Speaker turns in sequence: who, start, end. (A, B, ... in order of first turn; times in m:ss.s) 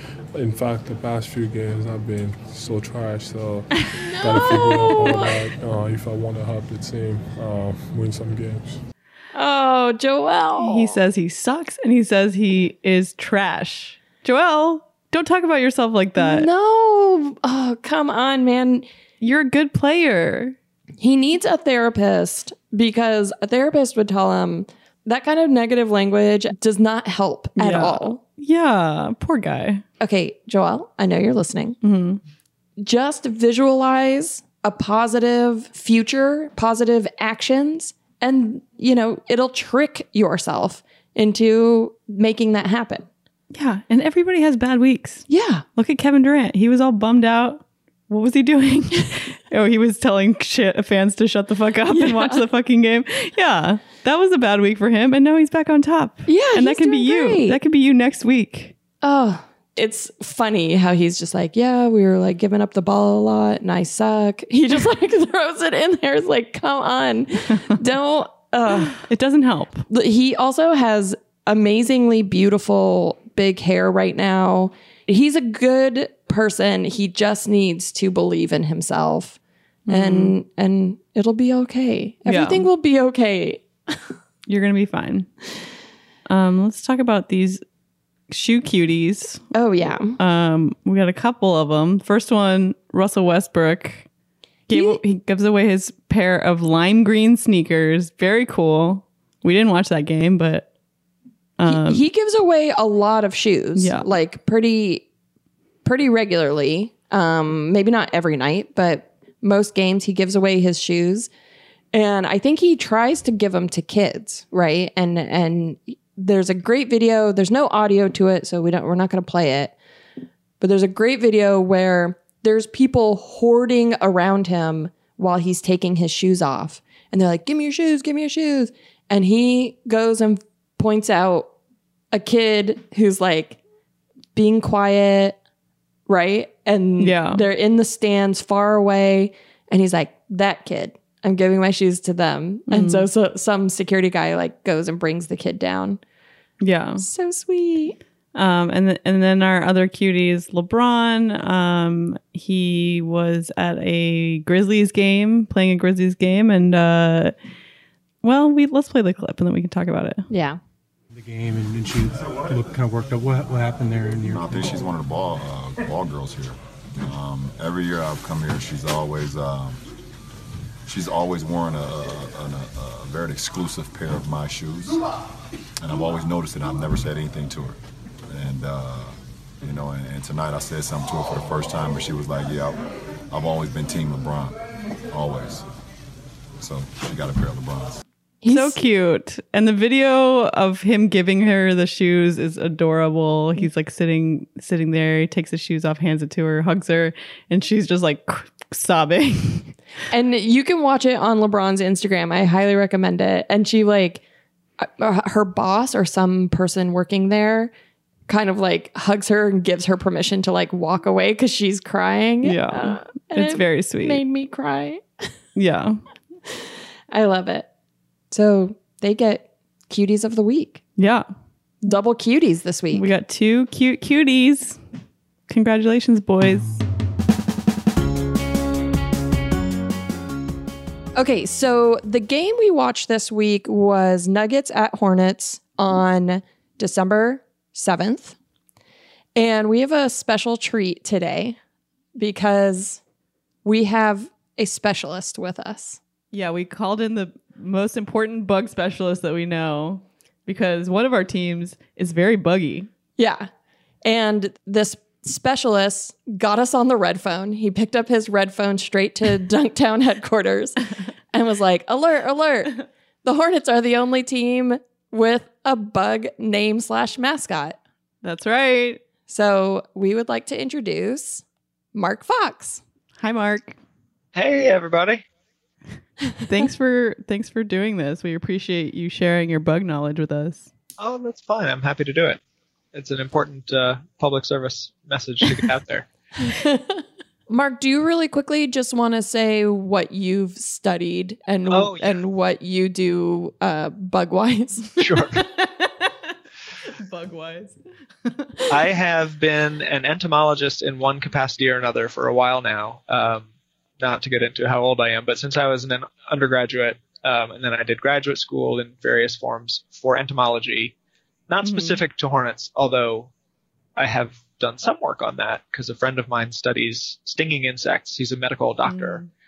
0:00.4-0:08.8 A
0:04.1-0:05.3 B
0:04.3-0:05.0 C
0:09.3-0:11.0 B
0:10.6-0:16.5 C
0:16.2-0:18.9 B
0:19.2-0:20.6 C
0:21.0-0:28.2 B
0:27.6-0:29.8 C
0:30.0-0:31.8 B
0:31.8-0:32.2 C
0:32.8-0:43.1 B
0:43.5-0:58.8 C
0:45.3-0:45.6 B
0:51.9-0:52.4 B
0:56.3-0:57.6 B
0:59.0-1:09.0 B
1:08.9-1:09.9 C
1:09.9-1:19.4 B
1:19.9-1:20.4 C
1:19.9-1:24.0 B
1:22.3-1:22.6 C
1:24.5-1:25.3 C
1:26.3-1:27.6 C
1:28.3-1:29.4 C
1:29.5-1:30.2 B
1:30.2-1:34.1 C
1:34.7-1:40.7 C
1:34.7-1:35.0 B
1:41.6-1:42.0 C
1:41.7-1:45.1 B
1:43.8-1:44.1 C
1:45.8-1:51.3 B
1:51.9-1:59.8 B
2:00.6-2:11.5 B
2:12.1-2:13.6 B
2:14.4-2:15.4 B
2:16.1-2:26.0 B
2:17.0-2:17.4 C
2:22.7-2:23.0 C
2:26.6-2:27.0 C
2:27.0-2:28.0 B
2:28.4-2:37.3 C
2:38.2-2:40.3 C
2:40.3-2:40.6 B
2:41.1-2:44.9 D
2:44.3-2:49.8 E
2:50.9-2:55.0 E
2:55.8-2:57.8 E
2:58.3-3:04.6 E
3:05.1-3:05.6 E
3:06.6-3:08.0 E
3:08.4-3:08.8 B
3:08.5-3:19.8 C
3:20.1-3:24.2 B
3:24.8-3:27.7 B
3:28.3-3:35.0 B
3:32.4-3:34.2 C
3:35.6-3:36.0 C
3:37.1-3:37.7 B
3:38.3-3:40.8 B
3:41.0-3:41.2 C
3:41.8-3:43.1 B
3:42.9-3:44.8 C
3:45.5-3:46.8 C
3:51.2-3:58.4 B
3:59.4-4:01.6 B
4:02.2-4:03.0 B
4:03.6-4:06.0 B
4:06.3-4:12.9 C
4:13.2-4:13.5 B
4:14.0-4:20.8 B
4:21.3-4:27.8 B
4:28.2-4:29.0 C
4:29.3-4:32.8 B
4:33.2-4:33.8 C
4:34.4-4:35.2 F
4:36.4-4:40.7 C
4:41.0-4:42.4 F
4:42.9-4:46.1 F
4:46.4-4:54.9 B
4:51.7-4:52.2 F
4:55.0-4:55.4 F
4:55.6-4:56.1 C
4:57.0-4:58.6 C
4:58.7-5:03.5 F
5:04.0-5:10.9 F
5:11.5-5:13.3 F
5:11.6-5:12.0 C
5:14.0-5:19.2 F
5:18.8-5:19.3 C